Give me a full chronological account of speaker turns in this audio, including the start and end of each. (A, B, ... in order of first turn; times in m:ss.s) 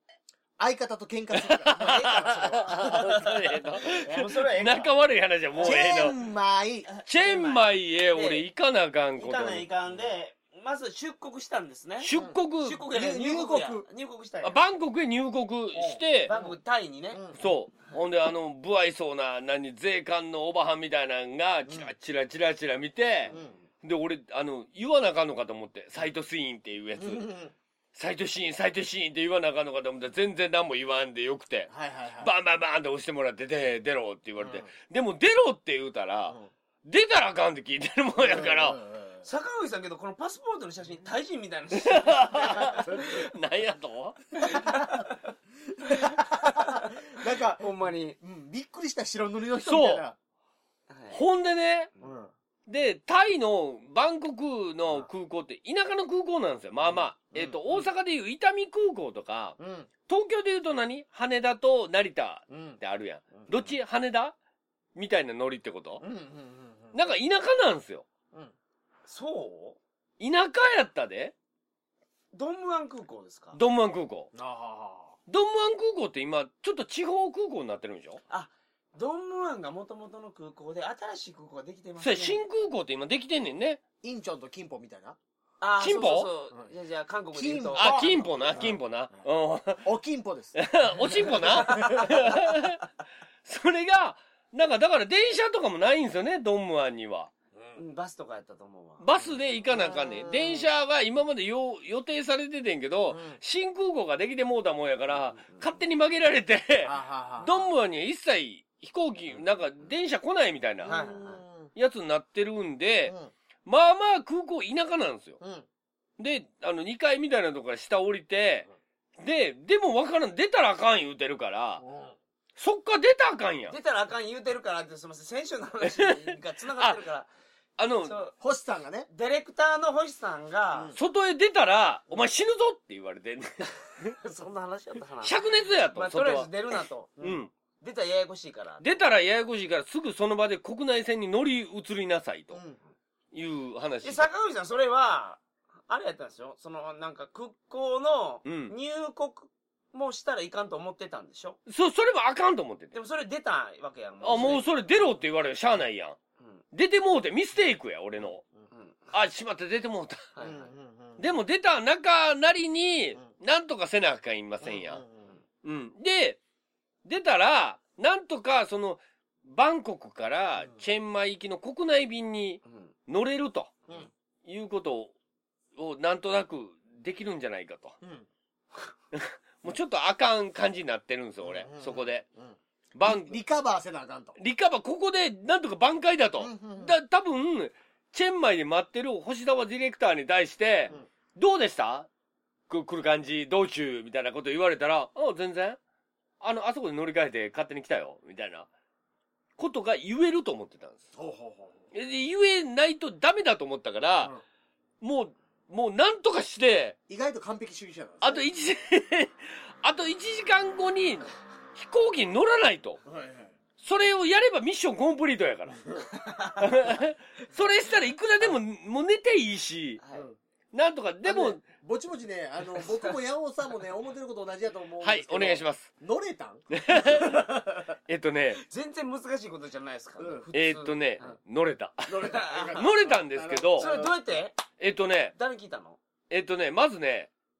0:00.6-0:02.7 A
0:01.3-0:06.2 B
0:01.8-0:04.9 C
0:05.5-0:05.8 C
0:05.6-0:06.9 A
0:06.9-0:08.4 C
0:07.1-0:09.6 B
0:09.2-0:14.6 C
0:12.0-0:12.8 B
0:12.9-0:13.8 A
0:14.4-0:16.3 B
0:15.8-0:16.6 A
0:16.2-0:17.2 C
0:17.1-0:17.4 A
0:17.4-0:27.3 B
0:23.3-0:23.6 C
0:27.0-0:27.5 A
0:27.9-0:31.7 B
0:31.7-0:32.3 A
0:32.2-0:38.8 B
0:34.4-0:34.7 A
0:38.2-0:39.2 A
0:39.2-0:42.8 C
0:41.7-0:44.6 B
0:42.8-0:43.2 A
0:44.4-0:45.1 C
0:44.6-0:44.8 A
0:45.8-0:50.2 A
0:46.0-0:47.0 C
0:47.6-0:48.2 C
0:49.6-0:50.0 B
0:50.9-0:51.2 C
0:51.1-0:51.9 B
0:52.0-0:52.3 A
0:52.7-0:59.6 B
0:56.9-0:57.9 A
0:59.6-0:59.9 A
1:00.1-1:04.3 B
1:02.5-1:02.8 A
1:03.4-1:03.7 A
1:04.9-1:06.0 B
1:06.0-1:07.0 A
1:06.9-1:08.0 B
1:09.1-1:09.8 C
1:10.2-1:11.3 B
1:12.3-1:13.6 C
1:13.5-1:14.3 B
1:14.3-1:15.2 A
1:15.3-1:18.2 B
1:18.3-1:22.4 C
1:22.0-1:23.8 B
1:24.0-1:25.2 A
1:25.6-1:28.7 C
1:25.8-1:26.3 B
1:27.3-1:28.8 A
1:27.7-1:29.8 B
1:29.8-1:32.2 A
1:30.5-1:32.8 B
1:31.4-1:32.4 C
1:33.4-1:37.3 B
1:37.8-1:39.0 C
1:39.0-1:51.1 B
1:39.2-1:40.7 A
1:43.1-1:43.4 A
1:45.1-1:45.8 C
1:46.8-1:47.7 A
1:50.8-1:51.7 A
1:50.8-1:51.4 C
1:51.8-1:53.1 B
1:53.0-1:53.3 A
1:53.6-1:55.4 B
1:55.4-1:55.6 A
1:56.2-1:58.7 B
1:59.2-2:01.8 B
2:01.8-2:02.1 A
2:02.6-2:03.7 B
2:03.7-2:07.3 C
2:05.8-2:07.0 B
2:07.8-2:08.1 B
2:08.0-2:08.3 C
2:08.4-2:09.1 A
2:09.1-2:10.9 C
2:10.9-2:14.2 B
2:14.2-2:15.4 C
2:15.2-2:16.5 B
2:15.9-2:17.1 C
2:17.2-2:17.5 B
2:17.8-2:19.0 C
2:18.8-2:22.6 B
2:22.5-2:22.8 A
2:23.3-2:24.3 B
2:24.0-2:31.6 C
2:28.4-2:28.7 B
2:31.7-2:32.9 B
2:32.9-2:34.7 C
2:34.2-2:36.2 B
2:36.7-2:38.4 B
2:38.7-2:39.1 C
2:39.1-2:40.3 B
2:40.3-2:40.7 C
2:40.4-2:41.3 A
2:41.2-2:45.0 B
2:44.6-2:45.3 A
2:45.6-2:46.4 B
2:47.0-2:53.8 B
2:52.6-2:52.9 C
2:54.4-2:55.1 B
2:55.8-2:58.0 B
2:58.0-2:58.3 A
2:59.1-3:02.2 B
3:01.4-3:04.3 A
3:02.9-3:03.4 B
3:04.4-3:12.1 B
3:06.4-3:07.0 A
3:12.7-3:15.8 B
3:16.4-3:18.7 B
3:19.6-3:21.0 B
3:21.2-3:21.8 A
3:21.9-3:24.3 B
3:25.0-3:27.0 B
3:27.1-3:28.5 A
3:28.2-3:33.0 B
3:33.0-3:33.5 A
3:33.8-3:36.0 B
3:36.2-3:36.6 C
3:36.6-3:40.0 B
3:40.0-3:40.3 C
3:40.7-3:41.6 B
3:41.2-3:47.9 A
3:45.0-3:45.9 B
3:46.7-3:48.6 B
3:48.6-3:51.3 C
3:50.2-3:50.4 A
3:50.5-3:53.9 B
3:52.1-3:54.1 A
3:52.2-3:52.8 C
3:53.8-3:54.6 C
3:54.8-3:55.3 B
3:55.4-3:56.0 C
3:56.3-3:57.3 B